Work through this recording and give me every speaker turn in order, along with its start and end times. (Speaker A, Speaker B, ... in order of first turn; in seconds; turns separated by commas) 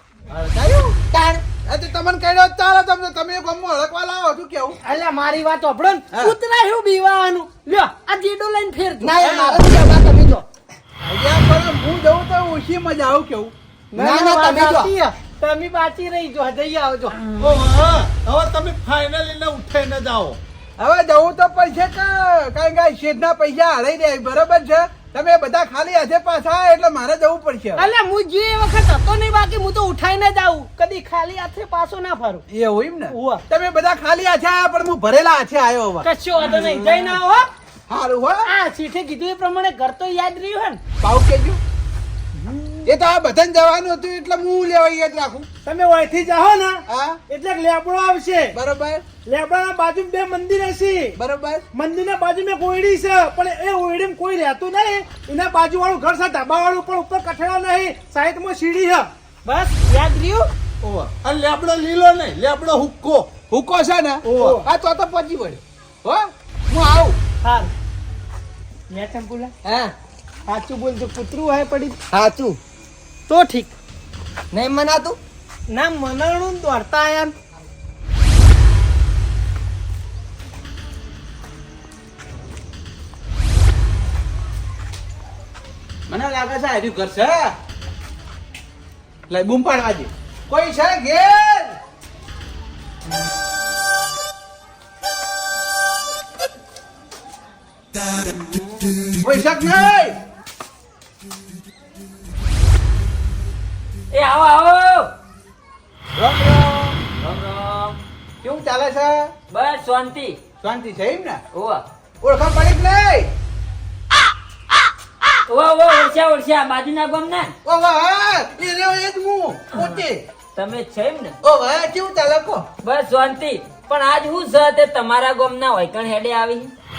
Speaker A: 0.3-0.9, Speaker B: 1.1-1.4, Speaker A: 1.6-4.8, Speaker C: 4.8-10.4, Speaker B: 9.0-10.4, Speaker A: 9.2-9.6, Speaker A: 11.0-14.9, Speaker C: 13.9-17.1, Speaker D: 17.4-20.4, Speaker A: 20.8-27.9, Speaker C: 27.8-32.4, Speaker A: 32.5-37.0, Speaker C: 33.1-33.4, Speaker C: 36.0-37.5, Speaker A: 37.9-38.5, Speaker C: 38.4-40.8, Speaker A: 41.0-41.6, Speaker C: 42.4-42.9, Speaker A: 42.9-45.5, Speaker E: 45.6-48.5, Speaker A: 46.9-47.2, Speaker A: 48.5-49.0, Speaker E: 49.2-51.2, Speaker A: 51.2-51.6, Speaker E: 51.7-59.1, Speaker C: 59.4-60.5, Speaker D: 60.8-63.3, Speaker A: 63.5-67.2, Speaker C: 64.2-64.6, Speaker C: 67.4-67.7, Speaker C: 68.9-69.5, Speaker B: 69.7-69.9, Speaker C: 70.5-72.0, Speaker B: 72.1-72.6, Speaker C: 73.3-73.7, Speaker B: 74.5-75.2, Speaker C: 75.7-77.3, Speaker A: 86.1-87.5, Speaker A: 89.3-91.8, Speaker A: 99.2-100.2, Speaker F: 104.1-105.1, Speaker A: 106.2-107.0, Speaker F: 107.2-108.0, Speaker A: 108.4-109.3, Speaker F: 109.5-110.4, Speaker A: 110.6-111.4, Speaker F: 111.5-111.8, Speaker A: 112.2-113.3, Speaker F: 115.5-117.5, Speaker A: 117.6-120.2, Speaker F: 119.7-120.0, Speaker F: 120.5-121.3, Speaker A: 121.4-122.6, Speaker F: 122.8-126.7